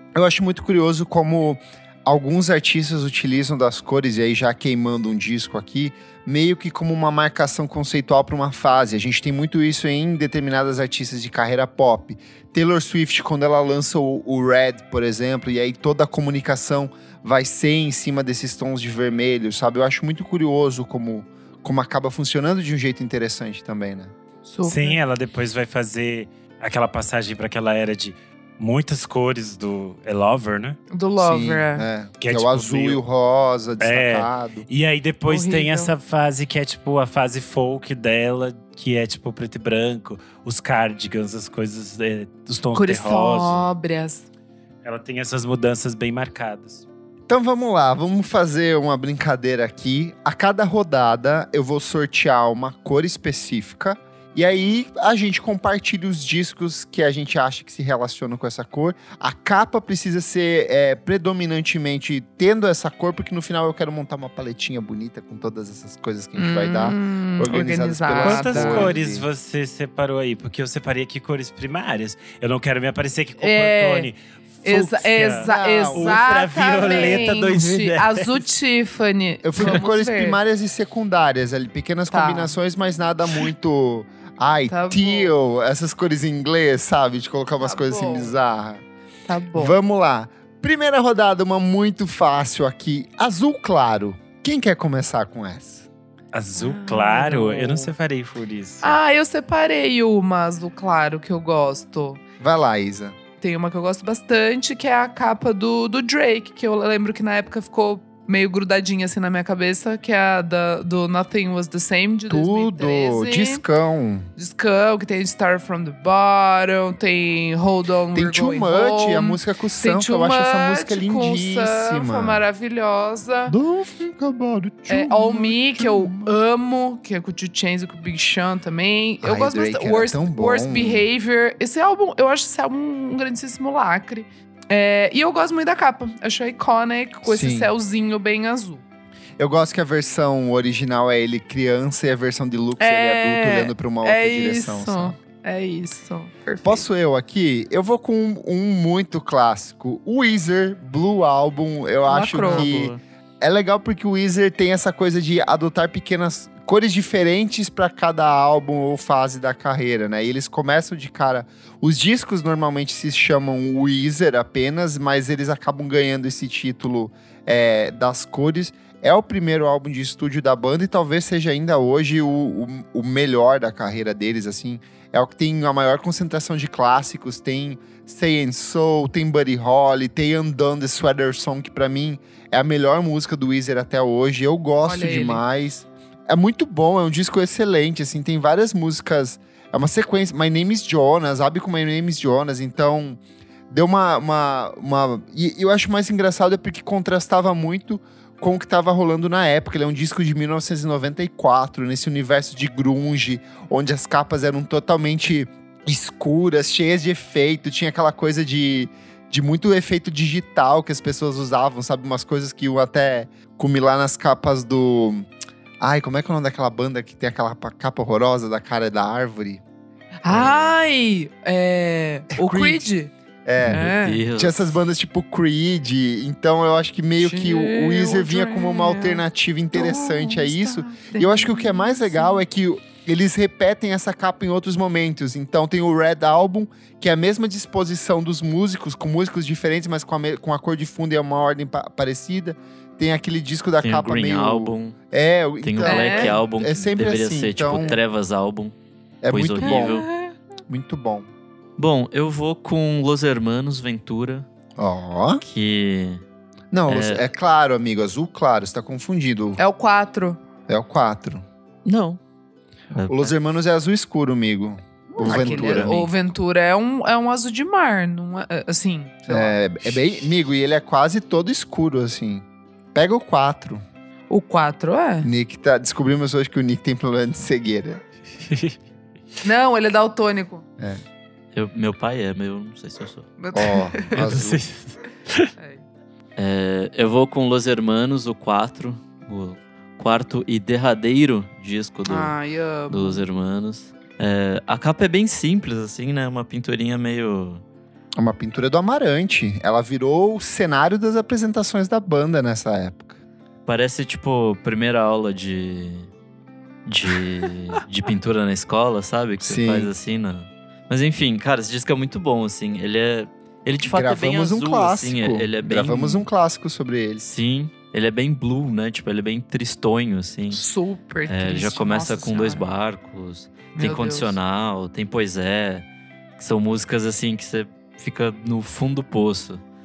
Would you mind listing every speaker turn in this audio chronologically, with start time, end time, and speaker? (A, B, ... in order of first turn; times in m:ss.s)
0:00.2-0:24.1 A
0:24.4-0:25.0 B
0:24.6-0:30.8 C
0:30.9-0:31.9 B
0:31.2-0:34.7 A
0:32.2-0:33.0 C
0:33.8-0:43.7 C
0:35.3-0:35.9 B
0:42.7-0:44.3 B
0:44.8-0:46.8 C
0:47.3-1:09.3 A
1:06.4-1:08.9 B
1:08.2-1:18.4 C
1:13.4-1:14.1 B
1:14.6-1:20.4 B
1:15.4-1:17.4 A
1:19.4-1:28.8 A
1:22.1-1:22.6 B
1:24.7-1:25.3 B
1:27.6-1:28.4 B
1:29.3-1:29.8 B
1:29.6-1:35.9 A
1:36.3-1:39.0 C
1:36.6-1:37.9 B
1:38.8-1:42.2 B
1:42.4-1:43.2 A
1:43.4-1:53.6 B
1:52.3-1:54.3 A
1:54.4-2:03.6 B
1:58.1-2:02.4 A
2:03.5-2:06.4 A
2:04.9-2:18.8 B
2:09.2-2:11.0 A
2:17.2-2:17.7 A
2:19.4-2:25.2 A
2:22.8-2:26.8 B
2:26.6-3:35.3 A
2:32.1-2:32.7 B
2:32.4-2:33.0 D
3:04.8-3:05.4 B
3:35.8-3:39.6 A
3:40.2-3:43.1 B
3:40.3-3:40.6 A
3:42.3-3:42.9 A
3:43.4-4:08.0 A
3:43.6-3:44.7 D
3:43.7-3:44.2 B
3:47.2-3:52.4 B
4:03.8-4:05.0 D
4:05.6-4:08.8 D
4:05.8-4:06.4 B
4:09.2-4:10.1 A
4:09.3-4:10.1 D
4:09.6-4:10.3 B
4:10.7-4:11.3 A
4:11.8-4:14.5 D
4:14.8-4:15.4 A
4:15.4-4:16.2 D
4:16.7-4:19.6 A
4:16.9-4:17.2 D
4:19.6-4:20.4 B
4:20.7-4:21.4 A
4:21.8-4:22.2 D
4:22.9-4:23.3 D
4:23.1-4:25.9 A
4:25.1-4:29.6 B
4:25.2-4:26.1 D
4:29.3-4:33.8 A
4:34.3-4:35.3 B
4:35.2-4:38.0 A
4:38.4-4:38.8 C
4:39.4-4:40.6 B
4:41.5-4:43.3 D
4:43.4-4:44.2 B
4:43.5-4:44.6 A
4:44.1-4:45.5 C
4:45.6-4:45.8 B
4:46.4-4:52.4 D
4:52.1-4:53.2 B
4:52.9-4:57.6 D
4:58.2-5:03.2 A
5:03.7-5:06.1 D
5:06.9-5:16.3 D
5:09.4-5:09.9 A
5:13.8-5:17.3 A
5:17.2-5:20.6 D
5:20.5-5:22.6 B
5:21.3-5:25.9 D
5:23.8-5:24.4 B
5:26.4-5:29.6 D